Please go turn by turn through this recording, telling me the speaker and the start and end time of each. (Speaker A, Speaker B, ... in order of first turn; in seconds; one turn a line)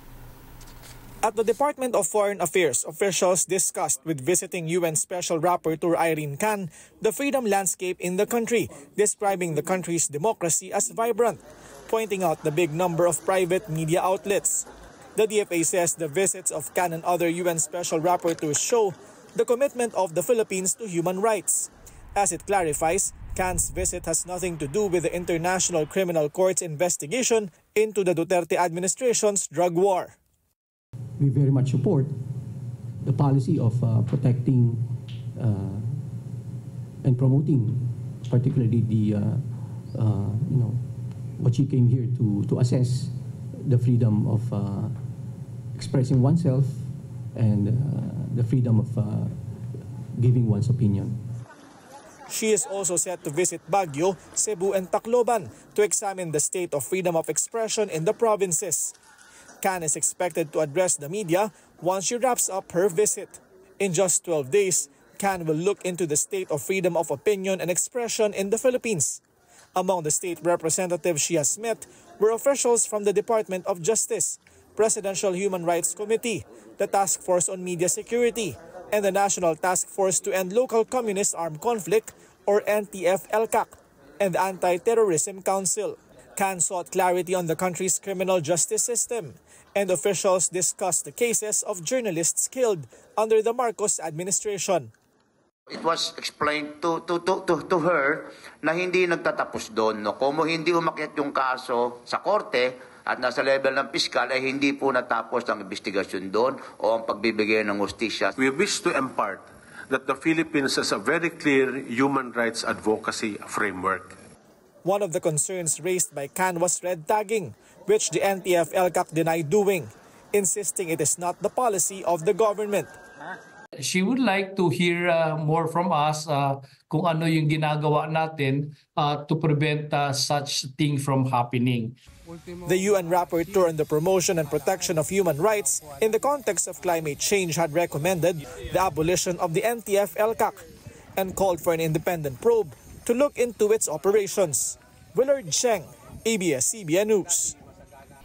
Speaker A: 1.2-30.1
Speaker B: 31.2-32.1
Speaker B: 33.0-36.0
Speaker B: 37.0-45.0
Speaker B: 45.7-51.2
Speaker A: 52.3-58.9
Speaker A: 59.6-69.2
Speaker A: 69.7-94.9
Speaker C: 95.7-108.3
Speaker D: 108.4-114.1
Speaker A: 114.8-123.0
Speaker E: 123.8-132.0
Speaker A: 132.7-140.6
Speaker A: 141.2-147.6